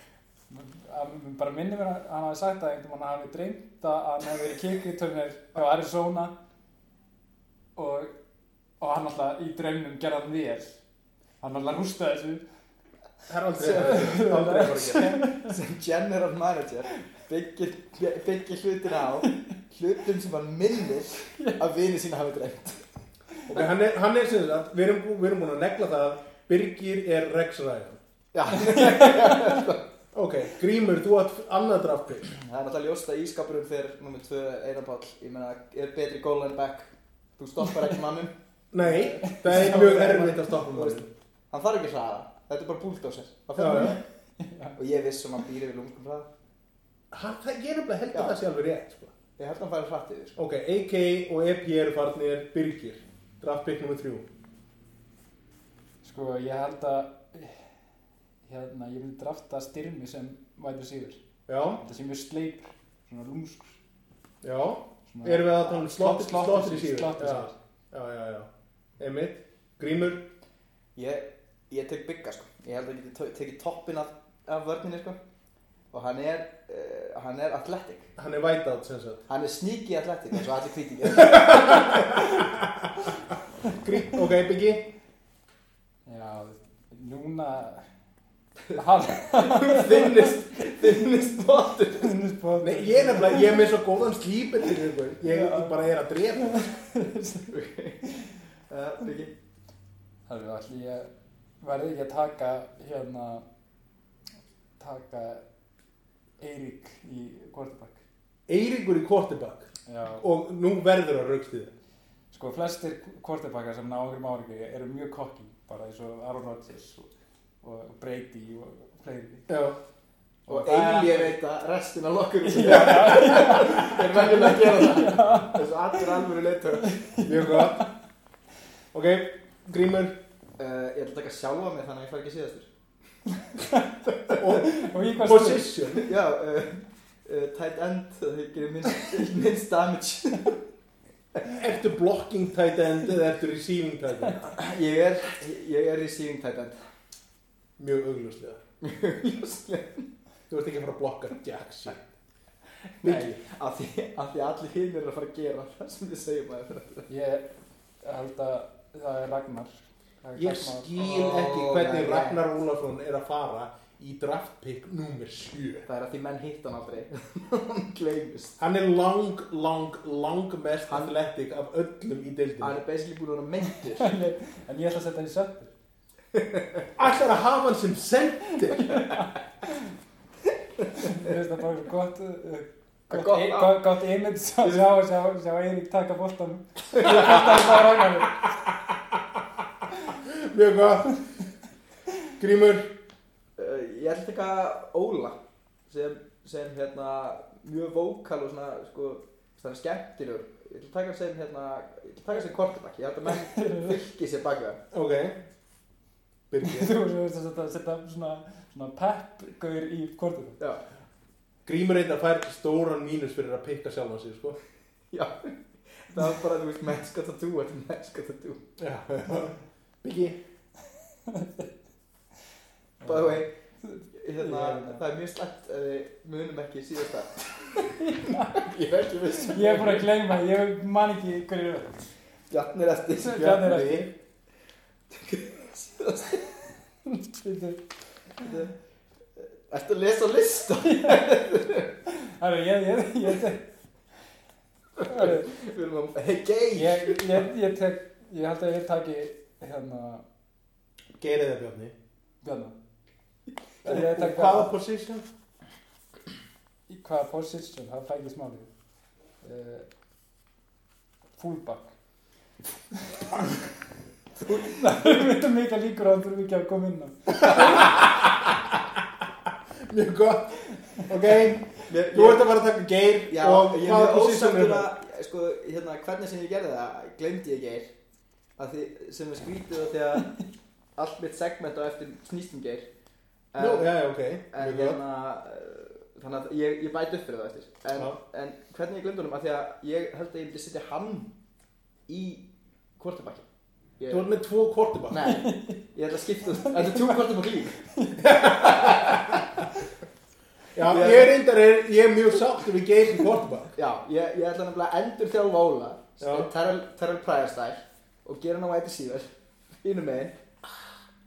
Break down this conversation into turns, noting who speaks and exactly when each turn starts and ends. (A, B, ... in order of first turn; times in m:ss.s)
0:00.5-0:06.3 A
0:07.8-0:08.1 A
0:08.8-0:10.8 A
0:11.4-0:12.4 A
0:13.3-0:15.2 B
0:13.6-0:14.3 C
0:13.6-0:15.5 A
0:14.9-0:22.8 C
0:23.5-0:28.0 B
0:28.3-0:29.9 C
0:28.7-0:29.6 A
0:30.1-0:32.4 B
0:32.3-0:38.3 C
0:37.7-0:37.9 A
0:38.7-0:41.1 B
0:38.8-0:40.5 A
0:39.6-0:44.0 C
0:43.6-0:44.0 B
0:43.6-0:44.8 A
0:44.8-0:46.3 C
0:47.1-0:49.1 B
0:48.1-0:48.4 C
0:49.4-0:50.4 C
0:50.4-0:54.2 B
0:56.0-0:57.7 A
0:58.4-1:01.2 A
1:01.5-1:01.8 B
1:01.8-1:03.8 A
1:04.4-1:10.2 B
1:05.1-1:07.5 A
1:10.9-1:15.2 C
1:15.9-1:18.1 C
1:18.2-1:19.2 B
1:19.3-1:22.2 C
1:21.2-1:22.9 B
1:23.6-1:24.9 B
1:26.0-1:27.9 A
1:28.7-1:30.9 A
1:29.3-1:32.2 C
1:32.0-1:33.7 A
1:32.6-1:36.7 B
1:35.2-1:35.8 A
1:36.4-1:37.5 A
1:37.5-1:38.1 C
1:38.7-1:39.3 C
1:40.3-1:41.1 A
1:41.6-1:43.4 A
1:44.8-1:45.5 A
1:46.4-1:48.0 A
1:48.5-1:51.7 B
1:49.8-1:50.2 A
1:52.3-1:57.1 A
1:57.6-1:59.5 A
1:59.5-1:59.8 B
2:00.4-2:01.3 A
2:00.5-2:07.0 C
2:02.4-2:06.2 A
2:02.6-2:03.5 B
2:06.8-2:07.9 A
2:07.2-2:07.8 B
2:08.9-2:10.2 B
2:10.6-2:12.7 C
2:13.4-2:15.7 A
2:14.3-2:16.1 B
2:15.9-2:20.6 C
2:21.6-2:24.4 B
2:24.4-2:26.8 C
2:27.8-2:28.6 B
2:28.8-2:30.1 C
2:30.5-2:32.0 B
2:32.8-2:37.1 C
2:33.0-2:33.4 B
2:37.1-2:37.5 A
2:38.0-2:40.9 A
2:40.4-2:45.8 B
2:41.0-2:42.4 C
2:45.9-2:48.6 C
2:48.6-2:52.8 B
2:52.6-2:54.1 C
2:53.7-2:55.7 A
2:56.3-2:56.8 C
2:57.0-2:58.9 B
2:58.8-2:59.8 A
3:01.0-3:08.5 A
3:03.1-3:03.8 C
3:04.6-3:04.9 C
3:07.0-3:07.3 C
3:07.1-3:07.8 B
3:08.9-3:09.4 B
3:10.1-3:11.2 B
3:12.4-3:12.9 B
3:13.6-3:24.8 C
3:23.3-3:24.0 A
3:24.9-3:25.4 B
3:26.5-3:26.9 B
3:26.6-3:30.6 A
3:31.6-3:34.6 B
3:35.1-3:38.6 C
3:38.8-3:40.4 B
3:41.3-3:41.6 A
3:43.0-3:45.0 A
3:43.0-3:43.5 C
3:44.1-3:50.1 C
3:48.0-3:48.6 A
3:49.4-3:52.1 A
3:52.5-3:54.1 C
3:53.2-3:54.1 A
3:55.1-3:56.5 C
3:57.0-3:57.8 A
3:58.4-3:58.7 C
3:59.4-4:01.9 C
4:00.9-4:01.2 A
4:02.1-4:03.6 A
4:05.0-4:07.4 C
4:05.0-4:05.5 A
4:06.7-4:10.2 A
4:11.2-4:11.9 B
4:12.4-4:12.8 A
4:13.8-4:14.7 A
4:13.8-4:15.2 B
4:16.9-4:18.7 A
4:19.4-4:19.9 A
4:21.4-4:21.9 A
4:23.1-4:23.4 A
4:24.4-4:24.8 C
4:24.4-4:27.9 A
4:27.6-4:28.7 B
4:29.9-4:34.9 B
4:31.8-4:32.5 C
4:33.3-4:37.9 C
4:38.6-4:42.9 C
4:43.5-4:43.9 C
4:43.6-4:45.0 B
4:44.5-4:51.3 C
4:52.1-4:53.4 C
4:54.0-4:54.2 C
4:54.1-4:55.2 B
4:55.1-4:57.8 C
4:55.2-4:55.8 A
4:56.4-4:57.4 A
4:57.9-4:58.4 A
4:58.2-4:59.4 B
4:58.4-4:59.3 C
5:00.7-5:03.7 B
5:00.8-5:01.3 C
5:03.7-5:10.4 C
5:06.2-5:06.5 B